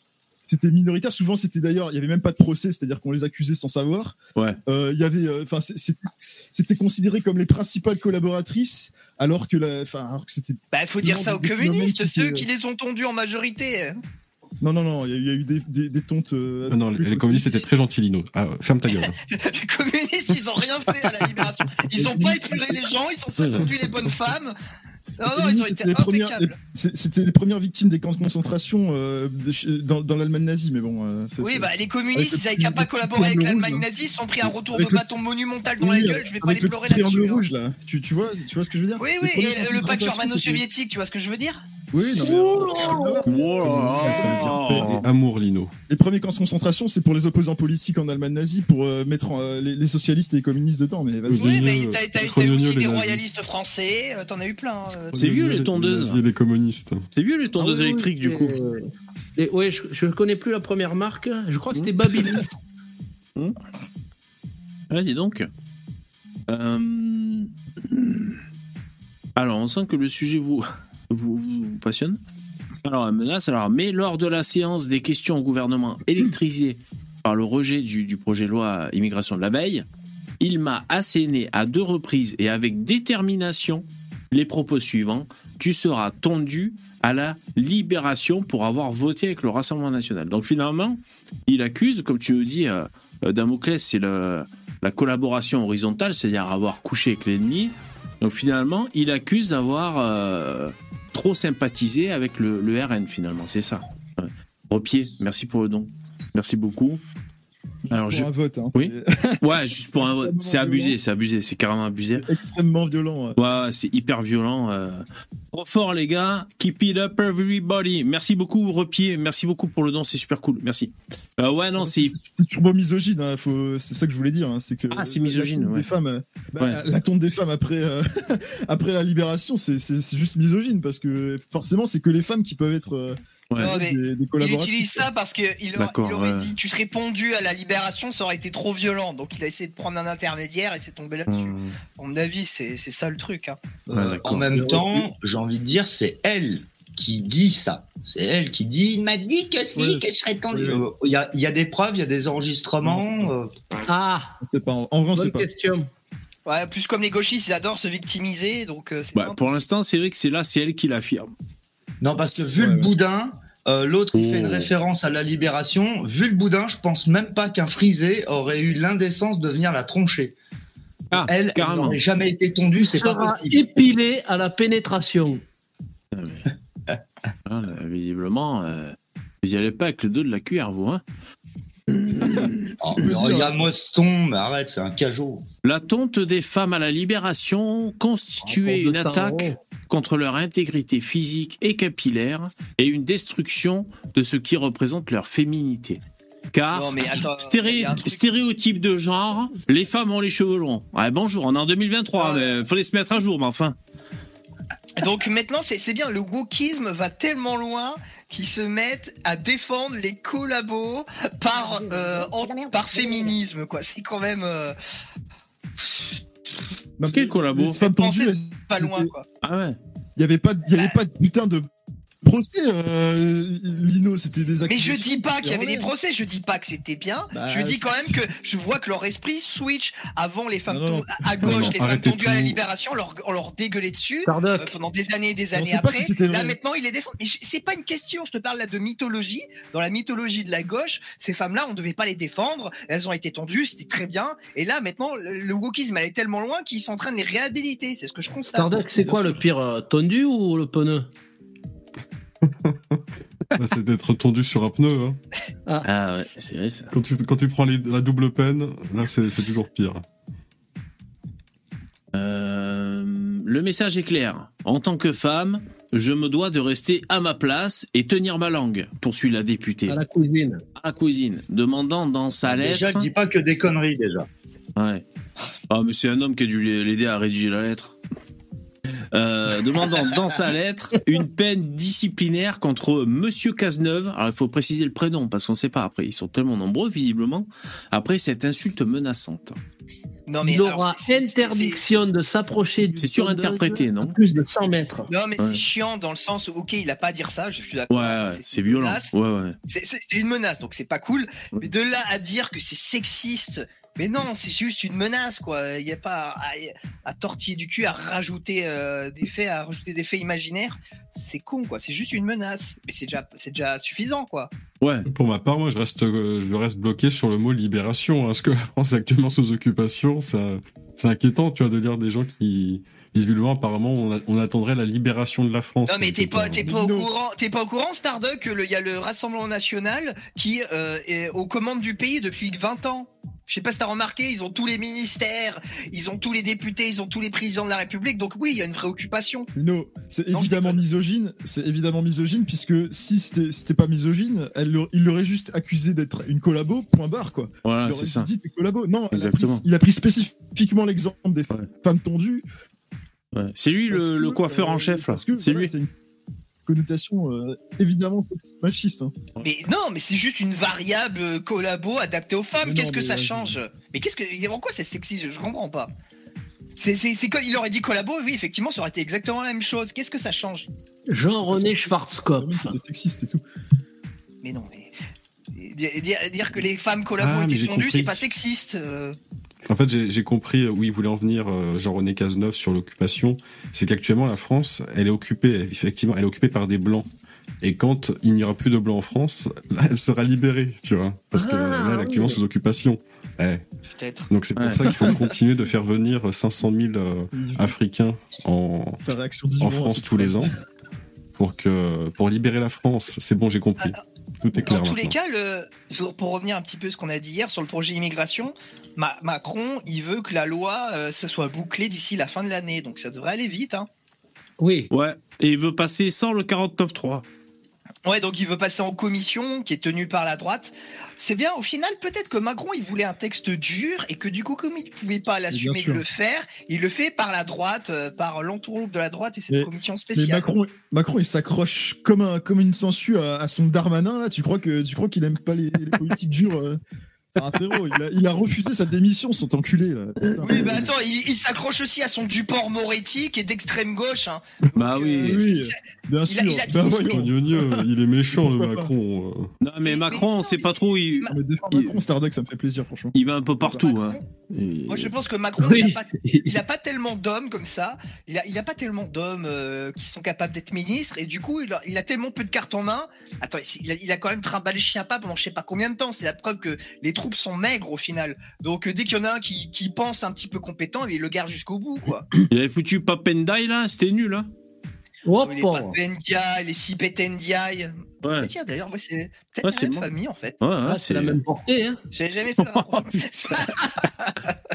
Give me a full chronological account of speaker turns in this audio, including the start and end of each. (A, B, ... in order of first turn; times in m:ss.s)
0:00.5-0:04.2 A
0:04.7-0:12.5 A
0:10.7-0:14.0 B
0:14.6-0:17.6 A
0:16.7-0:19.2 C
0:19.3-0:24.6 B
0:21.9-0:22.9 A
0:25.2-0:26.6 B
0:25.2-0:33.9 A
0:31.4-0:37.5 B
0:34.4-0:35.2 A
0:35.8-0:40.6 A
0:39.0-0:41.6 B
0:41.9-0:45.0 A
0:42.2-0:43.3 D
0:43.2-0:45.1 E
0:43.9-0:45.7 C
0:45.9-0:51.7 A
0:51.3-0:53.2 C
0:51.3-0:55.2 B
0:55.1-0:57.0 C
0:55.1-0:56.2 E
0:57.1-0:58.6 E
0:57.6-1:02.5 D
1:04.9-1:05.5 E
1:06.5-1:08.4 E
1:09.4-1:12.2 E
1:12.8-1:19.9 E
1:20.4-1:47.0 E
1:47.9-1:51.0 A
1:47.9-1:52.2 E
1:52.2-1:53.4 A
1:53.4-2:02.1 E
2:01.8-2:15.1 A
2:04.9-2:05.9 E
2:13.6-2:23.6 B
2:15.8-2:16.5 E
2:21.3-2:21.8 E
2:23.9-2:33.5 F
2:23.9-2:24.6 E
2:29.8-2:30.9 A
2:32.8-2:33.3 A
2:33.9-2:34.4 D
2:34.4-2:35.5 A
2:35.2-2:35.9 D
2:36.5-2:39.6 B
2:39.1-2:41.3 E
2:42.0-2:50.4 F
2:42.4-2:42.9 A
2:44.1-2:44.7 E
2:51.1-2:52.0 E
2:51.2-2:53.6 F
2:52.9-2:55.4 D
2:56.1-2:56.5 E
2:57.5-3:01.0 E
3:01.9-3:02.7 E
3:02.2-3:03.6 A
3:02.8-3:05.5 F
3:05.6-3:16.0 E
3:08.5-3:09.6 D
3:16.5-3:23.8 E
3:16.7-3:18.2 B
3:22.2-3:22.6 B
3:25.0-3:34.8 B
3:37.0-3:39.1 A
3:37.0-3:37.8 E
3:37.8-3:39.2 B
3:39.4-3:39.8 E
3:40.2-3:41.7 A
3:42.2-3:45.9 A
3:44.7-4:09.4 B
3:47.3-3:48.2 A
3:50.7-3:51.8 A
3:51.4-3:52.6 C
3:54.3-3:54.7 D
3:55.5-3:56.6 A
4:08.5-4:11.1 D
4:12.4-4:13.0 C
4:13.5-4:15.2 C
4:15.8-4:16.9 E
4:16.9-4:20.0 C
4:22.1-4:30.0 E
4:29.9-4:30.6 D
4:30.8-4:33.1 E
4:32.5-4:34.3 F
4:34.8-4:35.0 E
4:35.7-4:38.0 E
4:39.1-4:49.6 E
4:50.3-4:51.8 B
4:50.4-4:55.1 D
4:53.0-4:54.2 E
4:55.1-4:59.1 B
4:57.9-4:59.6 E
4:59.7-5:14.5 B
5:14.8-5:15.1 E
5:15.1-5:26.6 C
5:25.9-5:39.5 B
5:26.6-5:27.1 A
5:39.6-5:52.5 A
5:40.3-5:40.8 B
5:47.6-5:48.3 E
5:49.1-5:49.6 E
5:53.3-5:55.7 E
5:53.9-5:55.9 A
5:56.7-5:59.1 A
5:59.4-6:05.9 B
6:02.6-6:03.6 A
6:06.8-6:10.7 B
6:11.1-6:12.8 D
6:11.4-6:13.4 A
6:14.4-6:15.0 B
6:15.5-6:19.2 B
6:17.2-6:18.2 C
6:19.7-6:27.1 C
6:27.6-6:33.6 C
6:31.4-6:32.4 D
6:33.9-6:34.3 B
6:34.3-6:39.0 C
6:34.6-6:34.8 E
6:34.9-6:35.2 A
6:37.3-6:37.7 A
6:39.0-6:40.5 A
6:39.6-6:40.5 C
6:41.4-6:45.2 C
6:44.6-6:53.9 B
6:54.6-6:54.9 D
6:54.9-6:57.2 E
6:58.0-7:10.4 B
7:05.5-7:06.0 A
7:09.5-7:16.8 A
7:17.4-7:20.9 A
7:20.4-7:25.8 B
7:24.8-7:25.4 E
7:25.2-7:28.9 A
7:26.3-7:27.2 B
7:27.1-7:29.5 C
7:29.6-7:32.0 E
7:29.8-7:31.3 B
7:31.3-7:33.9 A
7:33.1-7:35.1 E
7:33.8-7:34.2 B
7:34.9-7:52.3 B
7:35.6-7:36.6 D
7:52.5-7:54.5 E
7:55.3-7:56.0 D
7:55.4-8:00.6 B
7:58.2-7:58.5 E
7:59.6-8:01.4 E
8:00.8-8:02.0 D
8:02.1-8:04.5 B
8:02.6-8:03.7 E